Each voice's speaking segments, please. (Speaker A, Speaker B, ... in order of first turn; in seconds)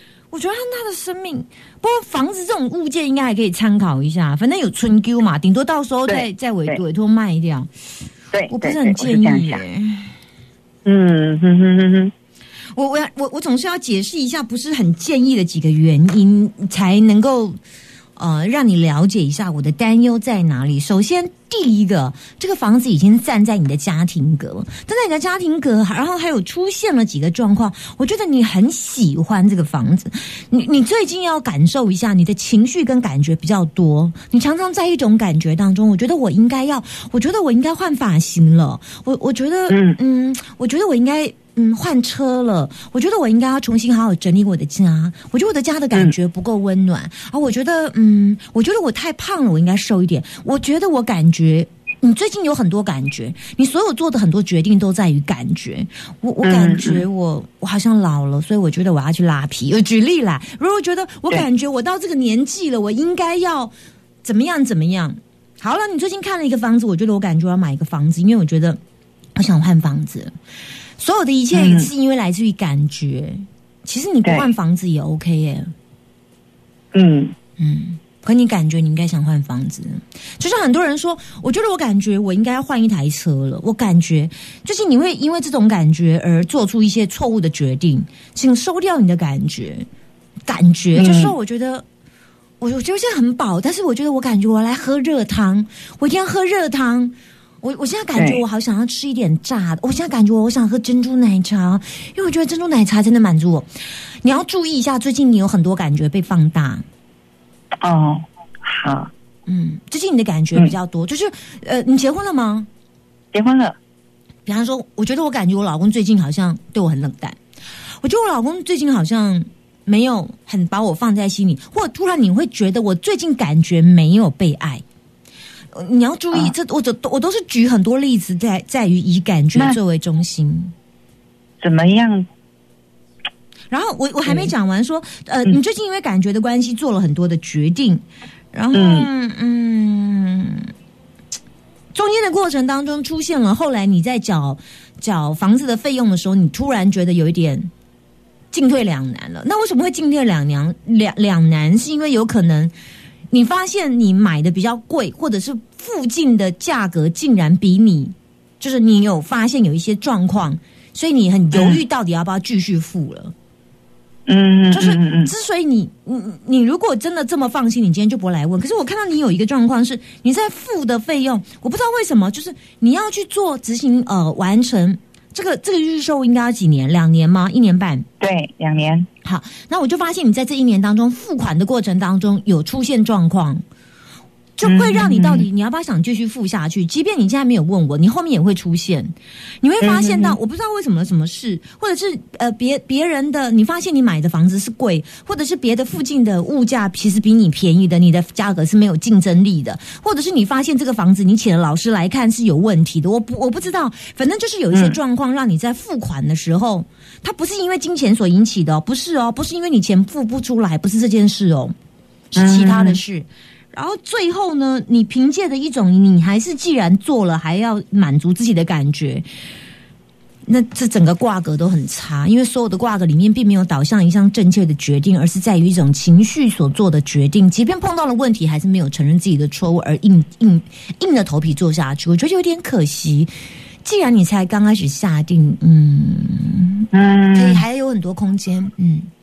Speaker A: 0.3-7.7, 8.5-10.1, 12.7-17.6, 18.2-68.8, 69.4-70.3, 71.0-75.7, 77.6-89.9, 90.5-91.8, 92.6-103.7, 104.2-106.8, 109.5-112.7, 114.5-117.4, 118.0-124.8, 125.7-130.7, 133.7-140.7, 141.9-147.7, 148.5-152.7, 153.3-163.3, 164.7-178.1, 179.2-183.6, 184.6-211.8, 212.3-219.3, 220.4-233.3, 233.8-239.1
Speaker B: 6.1-6.8, 8.3-9.6, 10.8-12.1, 39.7-40.0, 56.4-57.0, 71.5-71.9, 74.2-74.5, 76.9-77.3, 91.0-91.4, 98.2-98.4, 107.8-109.1, 113.3-113.8, 131.6-132.3, 134.3-134.5, 138.7-139.1, 161.5-161.8, 164.3-165.3, 178.2-179.1, 184.6-185.5, 189.8-190.4, 204.7-205.0, 212.4-213.0, 236.9-237.7